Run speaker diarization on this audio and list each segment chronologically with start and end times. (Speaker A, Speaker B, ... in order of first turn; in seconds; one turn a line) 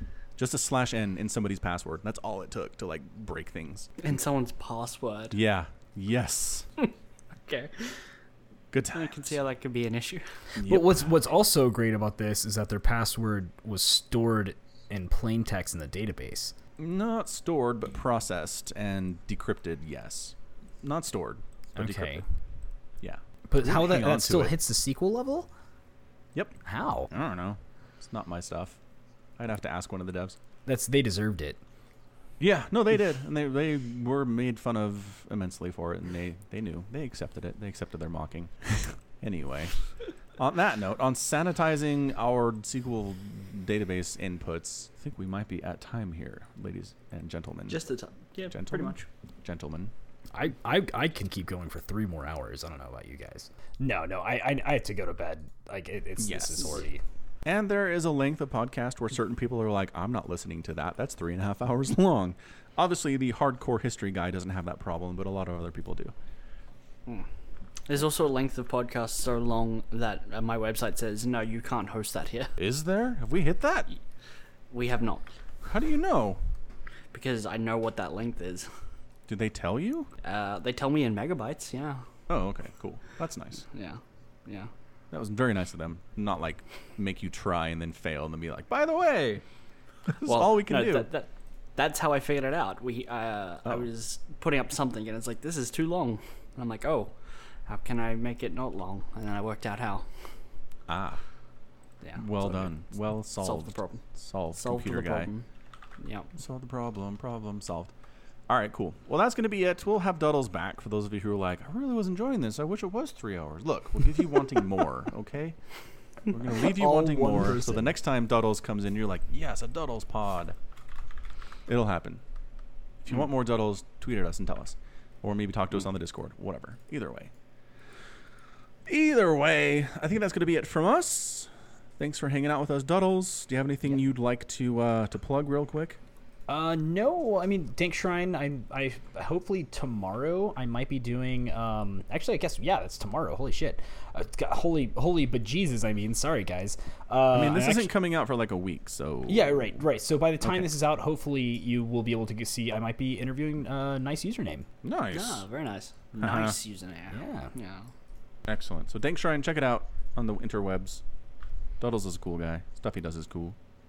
Speaker A: 0.3-3.9
Speaker B: 4.0-5.4
Speaker A: 5.3-6.7
Speaker B: 7.5-8.1
Speaker A: 8.7-9.3
Speaker B: 8.9-10.4
Speaker A: 10.6-11.1
Speaker C: 10.6-16.5
Speaker A: 16.8-22.2
Speaker C: 21.8-22.2
Speaker A: 23.0-24.5
Speaker C: 23.5-25.5
Speaker C: 26.6-27.1
Speaker A: 27.1-28.8
Speaker A: 29.4-30.4
Speaker C: 30.6-31.6
Speaker A: 32.4-39.8
Speaker A: 40.4-47.8
Speaker B: 47.7-49.1
Speaker A: 48.5-49.9
Speaker C: 50.3-57.0
Speaker A: 56.2-56.8
Speaker A: 57.4-66.1
Speaker B: 67.9-72.5
Speaker A: 72.6-73.9
Speaker B: 74.7-75.3
Speaker A: 75.6-76.4
Speaker B: 77.1-78.8
Speaker A: 79.3-80.1
Speaker B: 80.2-82.0
Speaker A: 82.3-83.6
Speaker B: 83.7-84.7
Speaker A: 85.1-89.4
Speaker A: 90.1-91.1
Speaker B: 90.2-100.4
Speaker A: 100.9-101.2
Speaker B: 102.0-105.5
Speaker A: 102.1-105.3
Speaker B: 106.0-106.3
Speaker A: 106.3-107.9
Speaker A: 108.5-120.5
Speaker C: 116.6-117.9
Speaker A: 121.7-122.2
Speaker A: 123.0-127.3
Speaker A: 128.8-136.0
Speaker C: 136.5-147.9
Speaker A: 147.3-149.8
Speaker C: 149.3-154.7
Speaker A: 150.4-150.7
Speaker A: 154.8-155.4
Speaker B: 155.1-157.9
Speaker A: 156.2-156.6
Speaker C: 157.1-157.5
Speaker A: 158.4-161.0
Speaker A: 161.8-163.6